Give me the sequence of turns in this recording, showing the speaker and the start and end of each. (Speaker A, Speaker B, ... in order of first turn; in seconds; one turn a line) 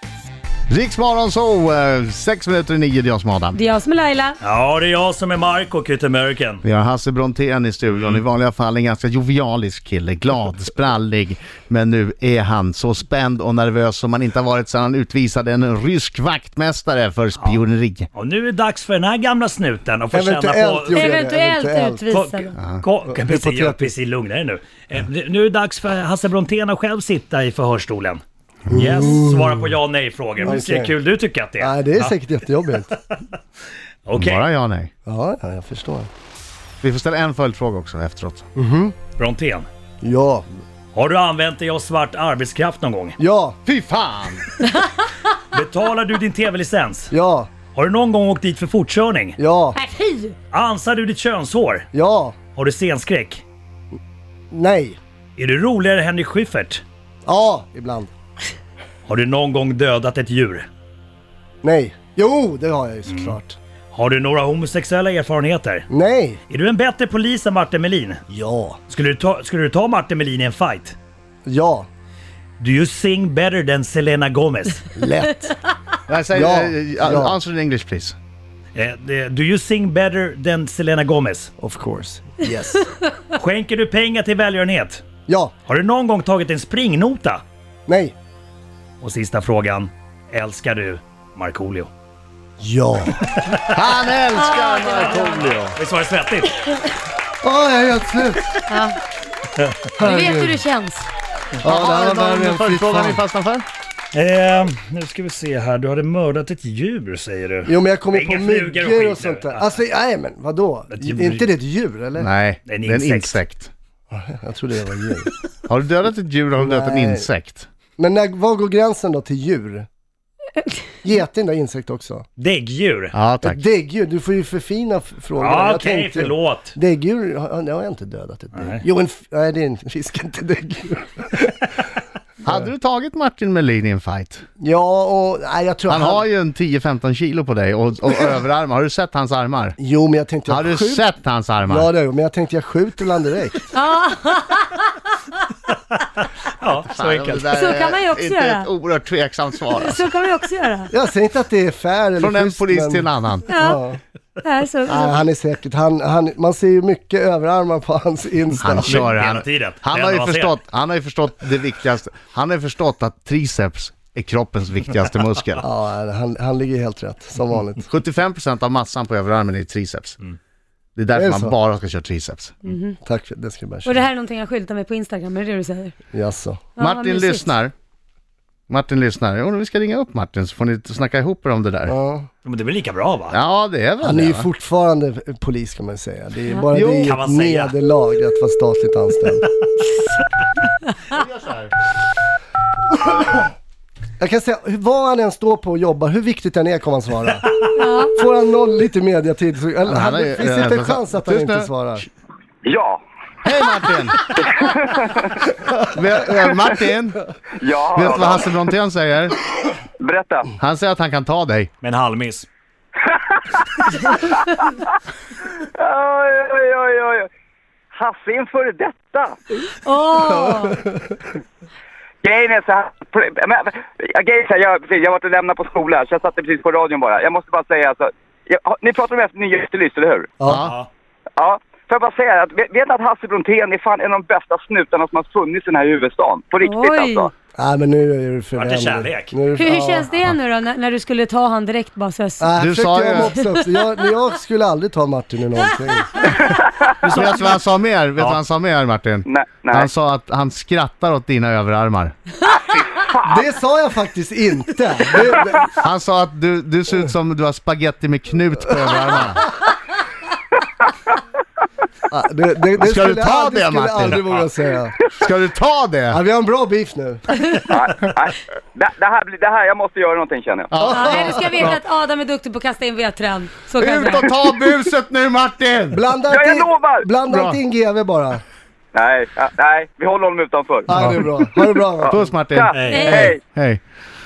Speaker A: 0.7-3.6
Speaker B: 3.5-4.4
Speaker C: 4.4-6.6
Speaker A: 6.6-18.1
Speaker C: 17.4-17.6
Speaker C: 18.1-21.1
Speaker D: 20.1-22.1
Speaker B: 20.9-22.6
Speaker C: 22.1-32.2
Speaker D: 23.1-23.9
Speaker D: 28.7-29.7
Speaker D: 30.4-31.0
Speaker D: 31.6-33.0
Speaker C: 34.1-34.5
Speaker A: 34.2-34.9
Speaker D: 35.0-36.1
Speaker A: 36.8-38.5
Speaker D: 38.5-39.0
Speaker C: 39.2-39.7
Speaker D: 40.0-40.5
Speaker C: 40.9-43.2
Speaker D: 43.2-43.6
Speaker A: 43.7-44.5
Speaker B: 44.6-45.0
Speaker C: 45.5-47.1
Speaker D: 47.1-47.5
Speaker C: 47.8-49.4
Speaker D: 49.4-49.8
Speaker B: 49.7-50.4
Speaker C: 50.5-51.9
Speaker D: 51.9-52.4
Speaker C: 52.6-53.4
Speaker D: 54.5-55.0
Speaker C: 55.4-56.8
Speaker D: 57.2-58.1
Speaker C: 59.1-60.7
Speaker D: 61.6-63.6
Speaker C: 63.1-63.4
Speaker C: 63.9-65.9
Speaker D: 65.9-66.4
Speaker C: 66.5-68.2
Speaker D: 68.3-68.8
Speaker C: 68.9-71.0
Speaker D: 71.5-71.9
Speaker C: 72.6-74.8
Speaker D: 74.9-75.6
Speaker A: 76.1-78.2
Speaker D: 76.3-77.4
Speaker C: 78.7-81.5
Speaker D: 81.6-82.9
Speaker C: 83.4-85.0
Speaker D: 85.3-85.5
Speaker C: 85.7-87.4
Speaker D: 87.9-88.2
Speaker C: 89.0-91.9
Speaker D: 92.6-93.4
Speaker C: 93.3-93.7
Speaker A: 93.7-95.8
Speaker B: 94.3-95.6
Speaker C: 95.0-96.6
Speaker D: 97.4-98.6
Speaker B: 98.7-99.0
Speaker C: 99.6-99.9
Speaker D: 100.0-100.6
Speaker B: 100.0-101.1
Speaker D: 101.6-103.2
Speaker A: 101.6-103.7
Speaker C: 104.1-109.8
Speaker D: 107.6-112.3
Speaker C: 110.9-111.5
Speaker A: 112.2-113.7
Speaker C: 112.7-113.4
Speaker D: 114.1-115.3
Speaker A: 115.7-117.7
Speaker D: 116.6-117.3
Speaker D: 118.0-119.9
Speaker D: 121.0-122.3
Speaker C: 122.4-123.1
Speaker A: 123.1-123.6
Speaker D: 123.4-131.9
Speaker C: 125.4-126.7
Speaker C: 128.5-128.8
Speaker A: 132.4-134.4
Speaker D: 134.6-136.3
Speaker A: 135.9-139.8
Speaker D: 139.8-141.1
Speaker A: 140.5-141.9
Speaker D: 141.7-143.7
Speaker B: 143.7-145.1
Speaker C: 145.7-147.6
Speaker A: 146.9-150.0
Speaker B: 147.5-148.7
Speaker B: 149.7-150.9
Speaker D: 150.9-154.0
Speaker A: 152.2-153.5
Speaker B: 153.5-153.8
Speaker B: 154.4-155.2
Speaker D: 154.8-159.1
Speaker A: 158.6-165.7
Speaker C: 158.6-160.6
Speaker D: 165.6-167.9
Speaker A: 167.9-170.2
Speaker A: 171.0-172.6
Speaker D: 171.1-171.6
Speaker B: 172.6-173.0
Speaker D: 173.0-174.0
Speaker B: 173.8-175.9
Speaker D: 176.1-176.7
Speaker B: 176.8-177.6
Speaker A: 176.8-177.7
Speaker A: 178.7-181.9
Speaker D: 181.9-182.3
Speaker C: 182.4-183.4
Speaker A: 183.3-184.5
Speaker D: 184.0-189.5
Speaker A: 186.7-187.2
Speaker C: 187.0-187.8
Speaker A: 191.1-191.7
Speaker D: 194.2-202.1
Speaker B: 197.8-198.2
Speaker A: 199.9-201.7
Speaker E: 202.7-203.0
Speaker A: 203.4-204.3
Speaker E: 204.5-205.3
Speaker A: 205.8-207.2
Speaker E: 207.6-208.6
Speaker A: 207.9-209.3
Speaker E: 210.0-210.5
Speaker A: 210.6-211.7
Speaker C: 211.8-212.5
Speaker E: 213.0-214.3
Speaker E: 215.8-217.3
Speaker E: 217.9-219.4
Speaker B: 219.7-220.8
Speaker D: 220.3-221.2
Speaker E: 222.2-230.3
Speaker D: 230.4-230.7
Speaker A: 230.4-230.8
Speaker C: 230.6-230.9
Speaker E: 231.4-237.3
Speaker B: 236.6-237.3
Speaker D: 237.6-240.2
Speaker C: 238.6-239.4
Speaker B: 239.6-242.6
Speaker D: 242.4-246.5
Speaker A: 242.6-243.3
Speaker B: 243.2-243.7
Speaker E: 246.5-246.8
Speaker A: 247.0-252.2
Speaker C: 247.0-247.6
Speaker E: 249.2-249.9
Speaker E: 252.7-253.2
Speaker D: 253.2-255.7
Speaker A: 255.7-259.5
Speaker D: 262.1-265.0
Speaker A: 262.8-264.5
Speaker A: 265.1-266.2
Speaker D: 266.1-267.3
Speaker E: 267.7-270.9
Speaker A: 270.7-271.8
Speaker D: 270.8-271.7
Speaker B: 270.9-274.3
Speaker A: 273.8-276.0
Speaker D: 275.9-278.4
Speaker E: 276.3-277.1
Speaker A: 277.3-277.6
Speaker E: 278.9-281.1
Speaker D: 280.9-282.3
Speaker A: 280.9-281.2
Speaker E: 282.0-283.4
Speaker A: 282.1-283.8
Speaker C: 282.7-283.4
Speaker B: 282.9-283.3